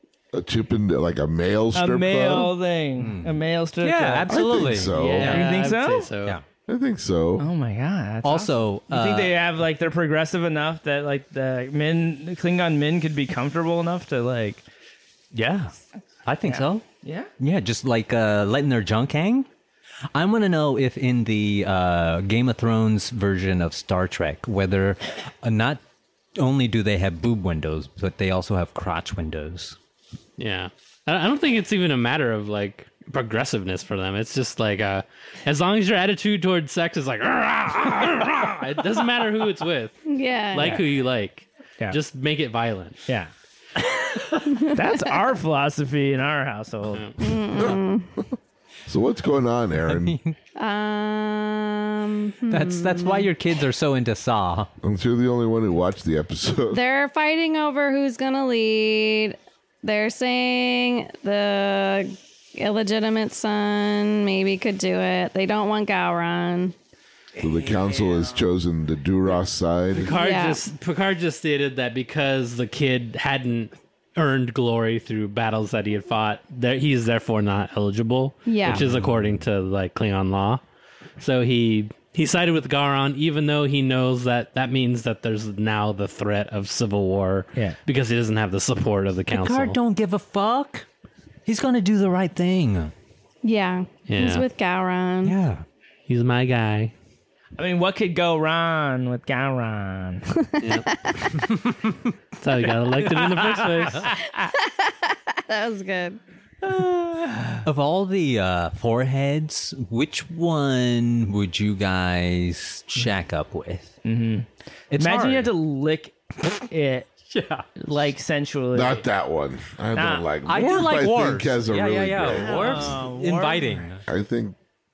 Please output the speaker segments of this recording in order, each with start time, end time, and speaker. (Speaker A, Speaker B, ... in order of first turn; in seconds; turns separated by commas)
Speaker A: 0.3-2.5, Speaker B: 1.7-4.4, Speaker C: 3.0-5.5, Speaker A: 4.3-5.4, Speaker D: 4.9-6.4, Speaker B: 5.2-6.1, Speaker A: 6.7-7.5, Speaker B: 7.4-14.6, Speaker C: 8.2-9.4, Speaker C: 15.3-15.7, Speaker C: 16.2-16.8, Speaker B: 16.4-17.3, Speaker C: 17.4-19.5, Speaker C: 20.1-25.8, Speaker C: 26.4-29.8, Speaker D: 30.4-40.0, Speaker E: 40.0-40.8, Speaker D: 40.5-43.0, Speaker B: 43.1-44.1, Speaker E: 44.5-44.8, Speaker B: 44.6-47.4, Speaker D: 46.9-47.2, Speaker E: 47.2-48.1, Speaker A: 47.5-48.2, Speaker A: 48.9-50.2, Speaker C: 49.9-50.4, Speaker E: 50.6-53.3, Speaker C: 52.5-54.7, Speaker A: 54.8-56.8, Speaker E: 56.7-66.7, Speaker A: 67.4-70.1, Speaker C: 67.4-68.4, Speaker D: 69.9-80.6, Speaker E: 70.1-70.7, Speaker E: 78.5-78.8, Speaker D: 81.2-89.8, Speaker C: 89.3-90.8, Speaker C: 91.5-92.9, Speaker E: 93.4-95.4, Speaker D: 94.1-94.5, Speaker C: 95.2-95.6, Speaker D: 96.1-96.9, Speaker B: 97.6-100.3, Speaker E: 100.4-101.3, Speaker D: 100.6-101.0, Speaker C: 101.5-102.0, Speaker D: 102.4-104.1, Speaker C: 103.0-104.1, Speaker E: 104.0-106.2, Speaker B: 106.6-107.6, Speaker C: 107.6-113.9, Speaker B: 114.0-116.2, Speaker C: 114.9-115.5, Speaker B: 116.7-117.1, Speaker C: 117.3-117.7, Speaker B: 117.8-119.0, Speaker A: 118.7-123.0, Speaker B: 119.9-120.2, Speaker C: 120.4-124.0, Speaker B: 122.3-123.8, Speaker A: 124.1-124.5